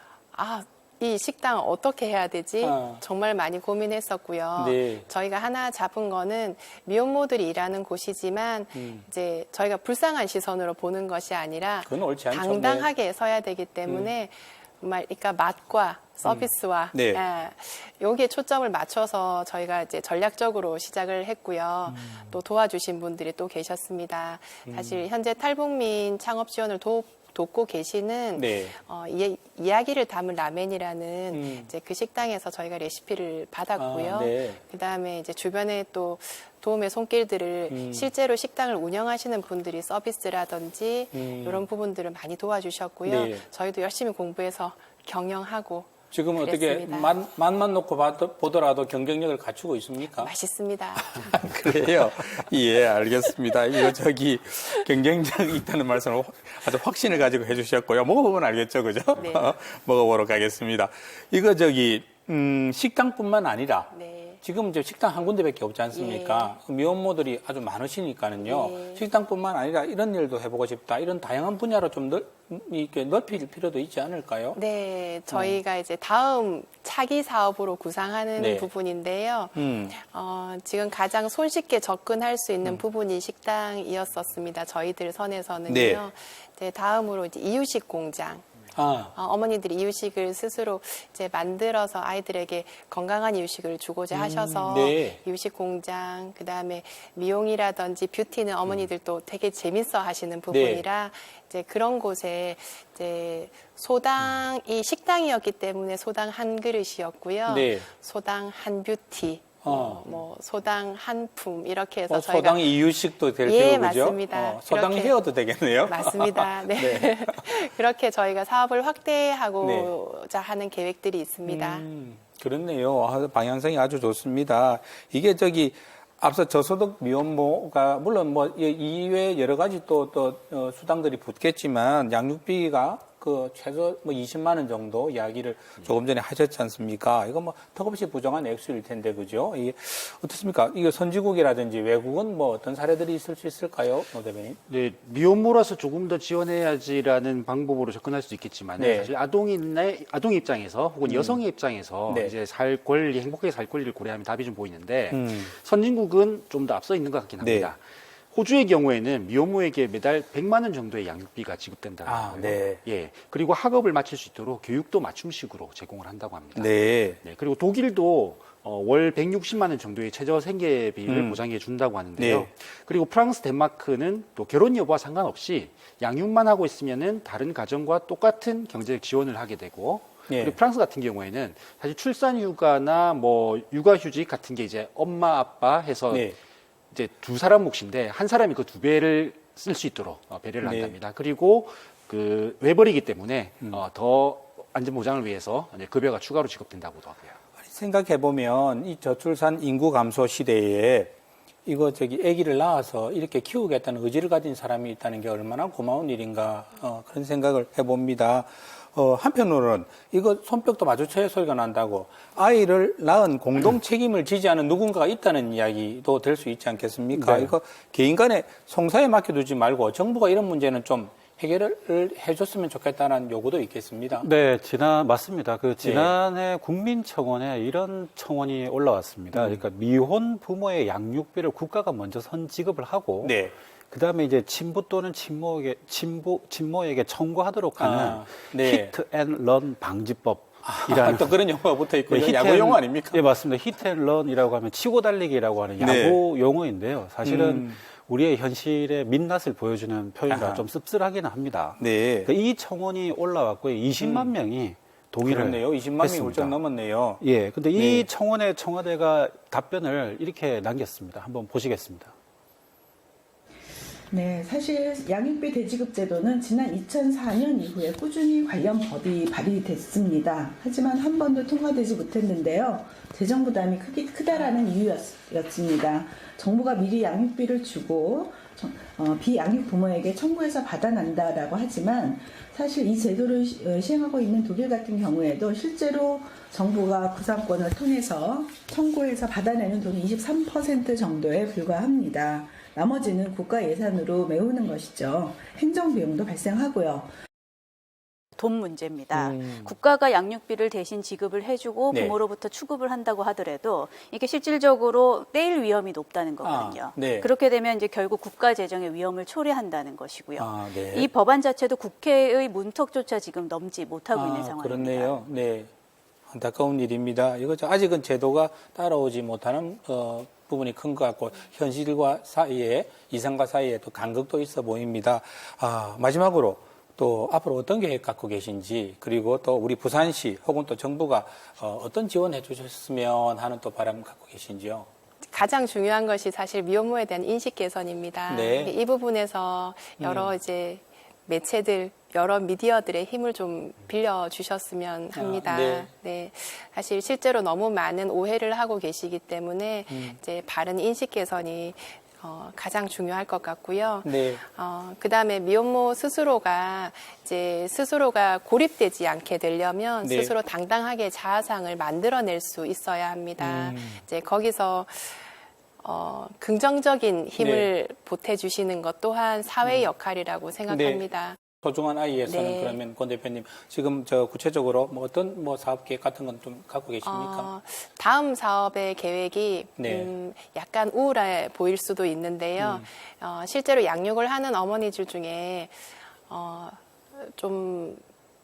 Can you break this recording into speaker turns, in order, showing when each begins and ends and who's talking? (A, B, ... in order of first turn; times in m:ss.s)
0:00.3-0:47.2 A
0:02.6-0:03.0 B
0:04.5-0:05.1 B
0:08.7-0:09.1 B
0:11.8-0:12.9 B
0:13.8-0:14.1 B
0:16.2-0:17.2 B
0:21.9-0:22.4 B
0:24.7-0:25.1 B
0:28.3-0:28.8 B
0:31.3-0:31.7 B
0:33.8-0:34.6 B
0:37.7-0:38.1 B
0:41.1-0:41.7 B
0:43.0-0:43.4 B
0:46.1-0:50.3 B
0:50.1-0:51.3 A
0:51.0-1:03.9 B
0:59.2-0:59.5 A
1:03.9-1:04.4 A
1:04.4-1:14.6 B
1:05.9-1:06.6 A
1:08.4-1:09.0 A
1:14.5-1:28.5 A
1:15.3-1:15.6 B
1:18.4-1:18.7 B
1:19.5-1:20.0 B
1:25.7-1:26.0 B
1:28.7-1:29.1 B
1:29.1-1:52.8 A
1:34.1-1:35.2 B
1:40.5-1:40.9 B
1:47.5-1:47.9 B
1:49.6-1:50.1 B
1:52.1-1:57.4 B
1:53.3-2:01.8 A
1:59.6-1:59.9 B
2:01.5-2:24.6 B
2:24.7-2:37.8 C
2:28.8-2:29.1 B
2:31.0-2:31.4 B
2:32.1-2:32.3 B
2:35.1-2:35.5 B
2:37.4-2:37.7 B
2:38.3-3:06.3 C
2:42.0-2:42.8 B
2:46.6-2:47.2 B
2:51.1-2:51.4 B
2:52.2-2:52.5 B
3:00.3-3:00.6 B
3:06.1-3:06.4 B
3:06.9-3:17.4 C
3:10.6-3:11.0 B
3:17.6-3:21.1 B
3:21.7-3:44.3 B
3:37.1-3:37.5 D
3:44.2-3:53.4 D
3:45.8-3:46.1 B
3:49.3-3:49.6 B
3:53.2-3:53.6 B
3:53.9-4:01.4 D
3:57.8-3:58.9 B
4:00.6-4:03.2 B
4:02.1-4:16.6 D
4:05.8-4:06.2 B
4:07.2-4:07.8 B
4:10.3-4:10.7 B
4:11.8-4:12.3 B
4:14.0-4:14.3 B
4:15.2-4:17.2 B
4:17.2-4:22.1 D
4:17.8-4:18.1 B
4:24.1-4:57.1 E
4:58.4-5:15.3 F
4:59.2-4:59.7 B
5:06.4-5:07.3 B
5:10.4-5:11.1 B
5:14.1-5:15.7 B
5:16.3-5:34.9 B
5:35.2-6:11.4 A
5:38.3-5:38.8 B
5:40.0-5:40.3 B
5:45.1-5:45.9 B
5:49.9-5:50.2 B
5:54.0-5:54.4 B
6:00.0-6:00.3 B
6:03.4-6:04.0 B
6:07.4-6:07.7 B
6:09.6-6:09.9 B
6:10.7-6:17.5 B
6:12.3-6:12.8 A
6:17.0-6:28.0 A
6:19.8-6:20.1 B
6:22.6-6:22.9 B